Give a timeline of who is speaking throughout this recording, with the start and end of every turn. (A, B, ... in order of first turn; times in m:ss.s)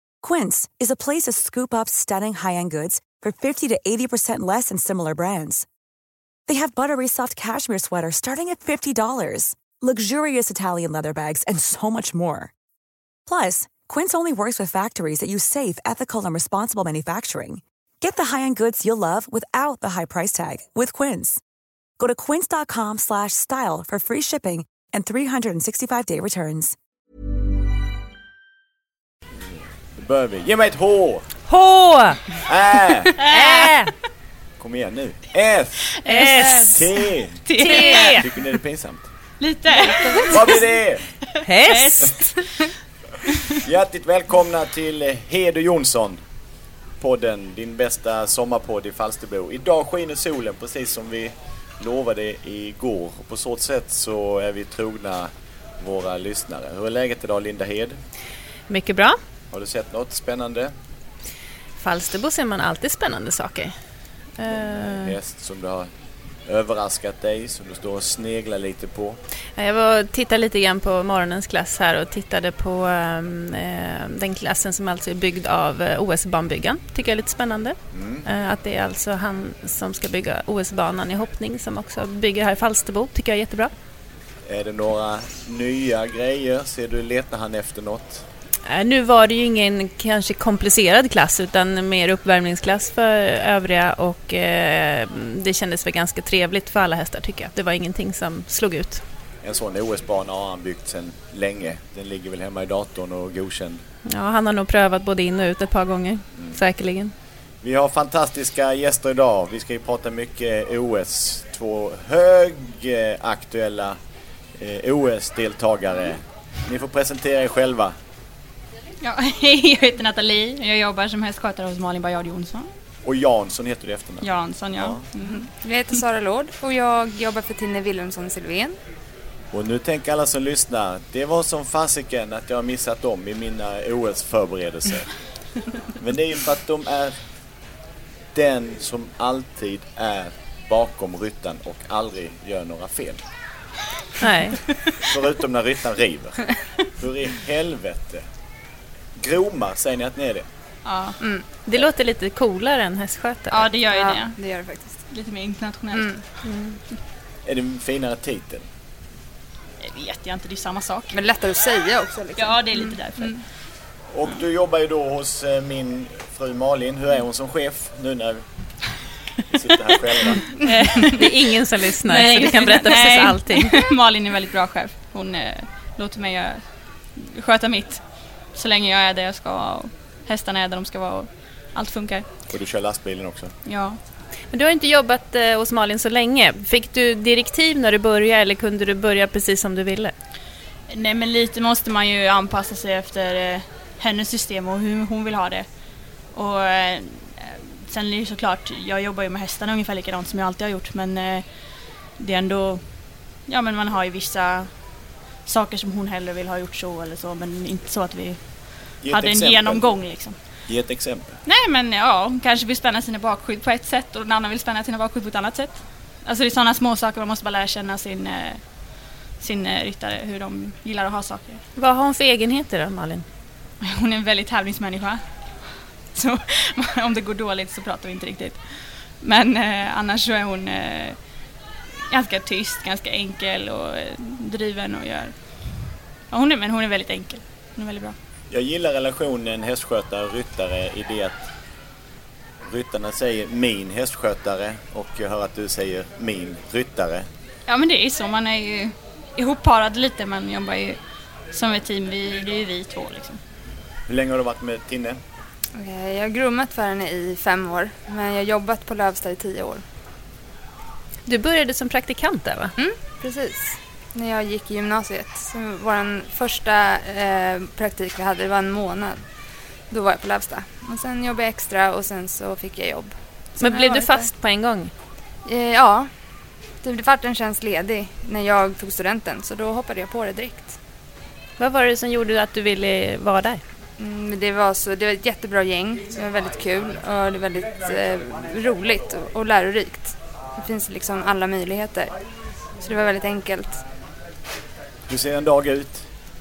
0:00.2-0:05.6 A
0:06.5-0:12.5 A
0:13.3-0:21.4 A
0:22.0-0:26.8 A
0:29.9-0:31.3 B
0:31.5-0:32.5 C
0:32.4-0:33.3 B
0:33.2-0:33.7 D
0:33.2-0:33.9 C
0:34.6-0:36.0 B
0:36.0-0:38.3 D
0:36.0-0:36.9 C
0:36.7-0:37.6 B
0:37.6-0:38.3 C
0:37.7-0:38.1 E
0:38.2-0:39.1 B
0:39.4-0:40.6 D
0:39.7-0:40.6 E
0:40.3-0:41.3 B
0:41.4-0:42.7 D
0:41.4-0:42.2 C
0:43.6-0:46.2 B
0:47.0-0:58.0 B
0:58.7-0:59.2 C
0:59.5-1:00.7 B
1:01.8-1:05.2 C
1:04.5-1:05.9 B
1:06.4-1:09.2 B
1:09.5-1:23.7 C
1:17.9-1:18.3 B
1:24.5-1:28.2 B
1:28.7-1:39.0 C
1:39.4-1:43.8 B
1:44.0-1:47.1 C
1:46.4-1:46.6 B
1:47.6-1:54.0 B
1:54.6-1:58.0 B
1:59.0-2:02.7 D
2:03.0-2:05.0 B
2:04.2-2:06.0 D
2:05.2-2:08.7 E
2:09.5-2:15.2 B
2:16.0-2:17.2 B
2:18.3-2:23.2 B
2:24.2-2:24.7 C
2:25.1-2:28.2 B
2:29.2-2:30.5 B
2:30.8-2:31.2 D
2:31.2-2:31.5 E
2:31.6-2:33.7 C
2:33.5-2:34.4 D
2:33.9-2:35.0 E
2:35.1-2:36.4 D
2:35.9-2:36.2 E
2:36.4-2:36.8 C
2:37.4-2:38.6 B
2:39.8-2:41.2 D
2:41.1-2:43.4 E
2:42.4-2:43.5 D
2:44.1-2:48.4 B
2:49.5-2:50.5 B
2:50.6-2:51.1 E
2:50.6-2:51.5 D
2:51.1-2:53.7 C
2:52.0-3:02.2 D
3:02.5-3:03.5 B
3:03.6-3:04.0 D
3:04.5-3:10.1 C
3:10.9-3:30.6 D
3:29.0-3:31.4 B
3:31.4-3:41.6 D
3:41.8-3:43.2 C
3:43.8-3:51.5 D
3:52.1-3:58.1 D
3:58.5-4:01.4 B
4:02.6-4:07.2 B
4:07.7-4:13.4 D
4:14.1-4:15.2 B
4:15.8-4:19.8 E
4:21.2-4:22.7 C
4:22.8-4:34.3 E
4:33.6-4:34.9 C
4:35.4-4:40.8 E
4:41.6-4:43.6 C
4:44.0-4:52.2 E
4:52.7-4:53.8 E
4:55.1-4:56.1 B